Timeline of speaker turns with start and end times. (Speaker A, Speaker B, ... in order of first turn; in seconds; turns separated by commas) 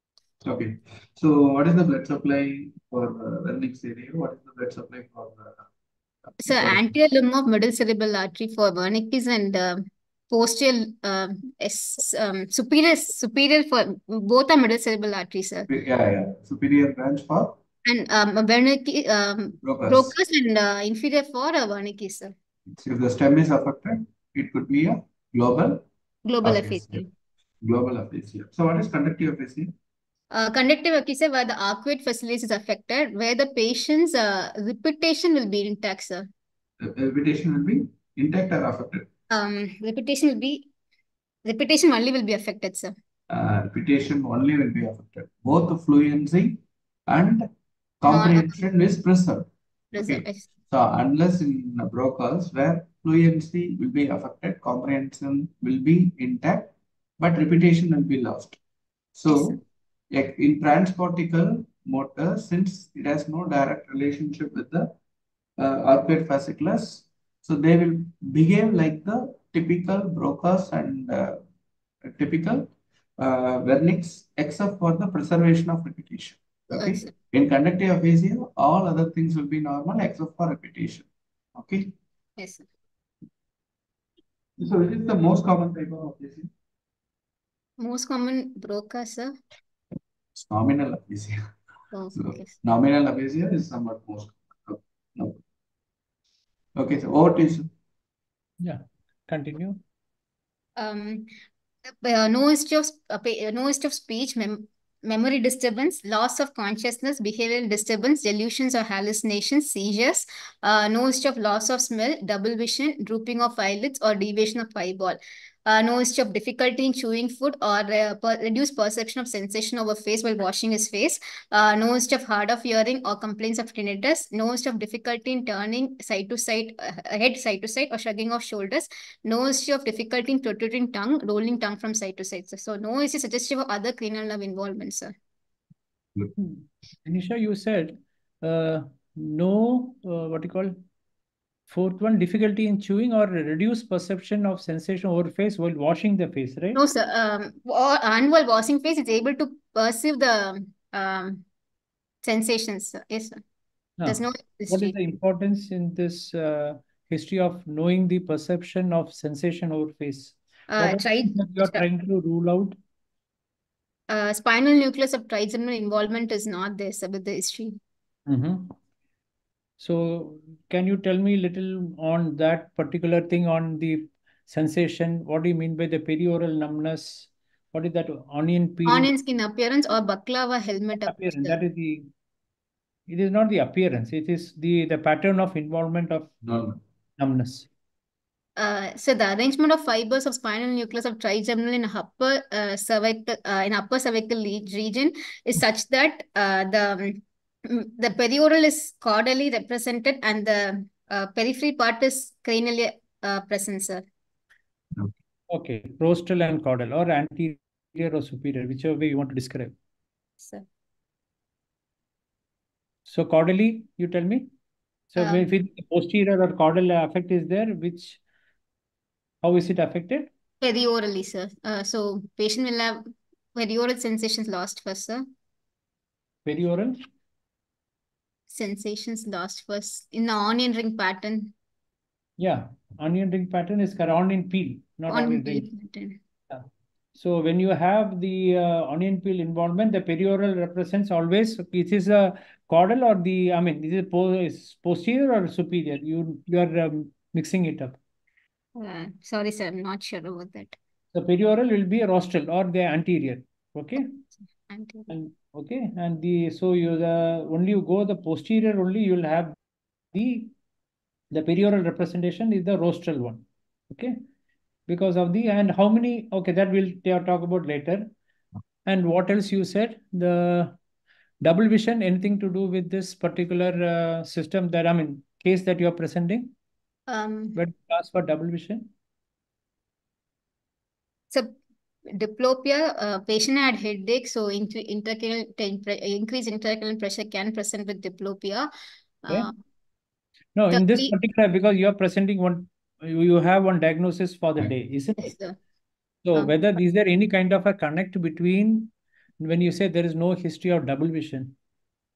Speaker A: 0.4-5.7, Speaker A: 6.4-6.9, Speaker B: 6.4-15.7, Speaker A: 15.7-17.6, Speaker B: 17.8-22.3, Speaker A: 19.6-20.1, Speaker A: 22.7-25.9, Speaker B: 26.2-27.1, Speaker A: 26.4-27.0, Speaker A: 27.6-29.7, Speaker B: 30.3-36.3, Speaker A: 36.8-39.1, Speaker B: 39.3-40.7, Speaker B: 41.4-42.9, Speaker A: 43.3-47.5, Speaker A: 48.0-58.6, Speaker B: 48.1-48.6, Speaker B: 49.9-50.5, Speaker A: 59.1-59.6, Speaker B: 59.3-59.6, Speaker A: 60.1-64.9, Speaker A: 65.6-71.4, Speaker A: 72.0-81.9, Speaker B: 76.8-77.1, Speaker B: 82.4-82.7, Speaker A: 84.6-86.5, Speaker B: 87.8-89.3, Speaker A: 90.3-91.5, Speaker B: 91.9-92.5, Speaker A: 92.1-95.4, Speaker A: 96.7-97.7, Speaker C: 98.6-99.8, Speaker B: 100.8-101.3, Speaker B: 102.0-135.1, Speaker C: 136.4-140.8, Speaker C: 141.7-146.8, Speaker B: 146.7-151.4, Speaker B: 152.2-153.4, Speaker C: 154.0-162.7, Speaker B: 154.1-154.9, Speaker B: 160.7-161.8, Speaker B: 164.1-167.8, Speaker C: 168.3-168.8, Speaker C: 169.8-179.1, Speaker B: 178.8-181.6, Speaker C: 181.0-182.1, Speaker C: 183.1-186.3, Speaker A: 186.4-186.8, Speaker C: 187.2-187.7, Speaker B: 188.6-204.0, Speaker C: 205.5-209.7, Speaker C: 213.1-214.5, Speaker C: 215.1-218.2, Speaker B: 215.2-215.5, Speaker C: 219.4-220.3, Speaker B: 220.6-225.2, Speaker C: 226.4-227.0, Speaker B: 228.5-231.5, Speaker C: 232.4-235.6, Speaker B: 235.1-236.2, Speaker C: 236.5-248.0, Speaker B: 248.8-250.8, Speaker C: 251.1-254.2, Speaker B: 254.7-255.1, Speaker C: 255.1-259.6, Speaker C: 260.1-260.5, Speaker C: 261.3-264.2, Speaker C: 264.9-268.1, Speaker C: 268.8-270.8, Speaker C: 271.4-276.5, Speaker B: 277.1-277.6, Speaker C: 277.5-278.9, Speaker B: 281.3-281.6, Speaker B: 282.1-288.7, Speaker B: 289.2-289.5, Speaker C: 290.5-295.3, Speaker B: 290.7-291.1, Speaker B: 295.2-295.6, Speaker C: 296.2-301.5